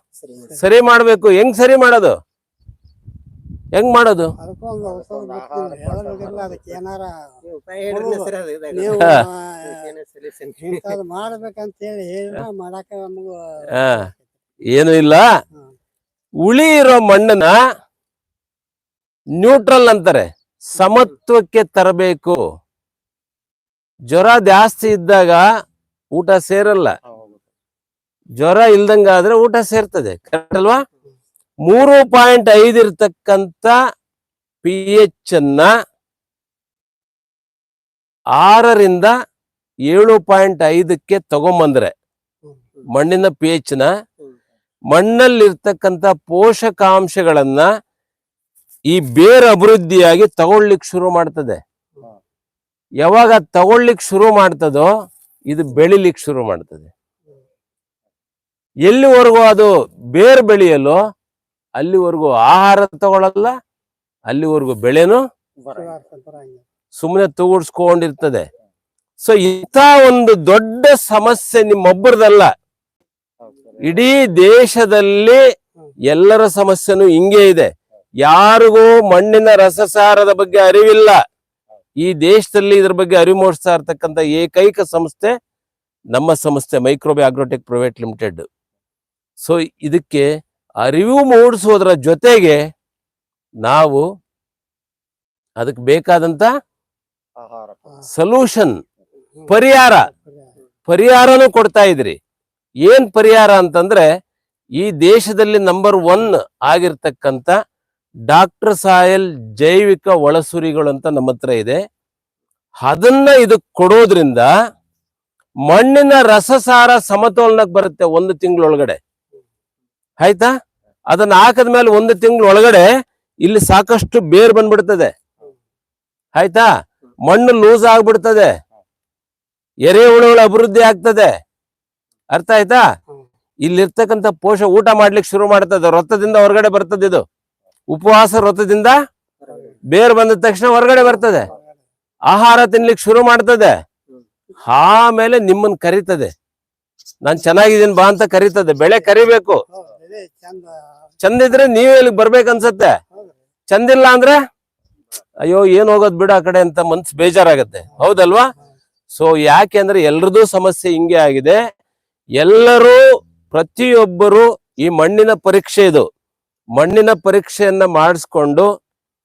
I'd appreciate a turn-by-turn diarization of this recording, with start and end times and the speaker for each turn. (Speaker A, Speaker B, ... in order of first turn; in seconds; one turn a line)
Speaker A: 0.4-0.6
Speaker B: 0.6-2.1
Speaker B: 3.7-4.3
Speaker A: 4.4-7.1
Speaker C: 4.8-6.8
Speaker C: 7.6-8.8
Speaker A: 7.8-9.9
Speaker B: 8.9-9.2
Speaker C: 10.0-10.7
Speaker A: 10.6-14.3
Speaker B: 13.7-14.1
Speaker B: 14.7-15.2
Speaker B: 16.4-17.5
Speaker B: 19.4-22.4
Speaker B: 24.1-25.4
Speaker B: 26.1-26.9
Speaker C: 27.0-27.4
Speaker B: 28.4-30.8
Speaker B: 31.6-33.7
Speaker B: 34.6-35.7
Speaker B: 38.4-39.1
Speaker B: 39.9-41.9
Speaker B: 42.9-43.9
Speaker B: 44.9-47.7
Speaker B: 48.9-51.6
Speaker B: 53.0-54.9
Speaker B: 55.5-56.9
Speaker B: 58.9-61.0
Speaker B: 61.8-63.5
Speaker B: 64.3-65.2
Speaker C: 65.6-66.0
Speaker A: 65.8-66.6
Speaker B: 67.0-68.5
Speaker B: 69.2-72.5
Speaker C: 73.4-74.0
Speaker B: 73.8-75.4
Speaker B: 76.1-77.7
Speaker B: 78.2-81.2
Speaker B: 82.0-85.3
Speaker B: 86.1-88.4
Speaker B: 89.4-90.3
Speaker B: 90.8-92.6
Speaker B: 93.6-94.0
Speaker B: 95.6-96.5
Speaker C: 97.4-97.9
Speaker B: 98.1-98.8
Speaker B: 99.5-100.1
Speaker A: 100.1-100.5
Speaker B: 100.9-102.2
Speaker B: 102.8-104.0
Speaker B: 104.8-107.5
Speaker B: 108.3-111.8
Speaker B: 112.8-114.5
Speaker B: 115.7-119.0
Speaker B: 120.2-120.5
Speaker B: 121.1-122.9
Speaker B: 123.4-125.1
Speaker B: 126.3-126.7
Speaker B: 127.2-128.6
Speaker B: 129.8-131.3
Speaker B: 132.3-132.8
Speaker B: 133.6-137.2
Speaker B: 137.9-138.9
Speaker A: 139.5-139.8
Speaker B: 139.9-141.5
Speaker A: 141.0-141.8
Speaker B: 142.3-143.8
Speaker B: 144.6-146.3
Speaker B: 147.2-149.6
Speaker A: 149.7-151.1
Speaker B: 151.2-152.9
Speaker B: 153.7-154.4
Speaker B: 155.4-158.5
Speaker A: 157.9-158.7
Speaker B: 159.1-161.6
Speaker B: 162.4-166.0
Speaker B: 166.7-168.7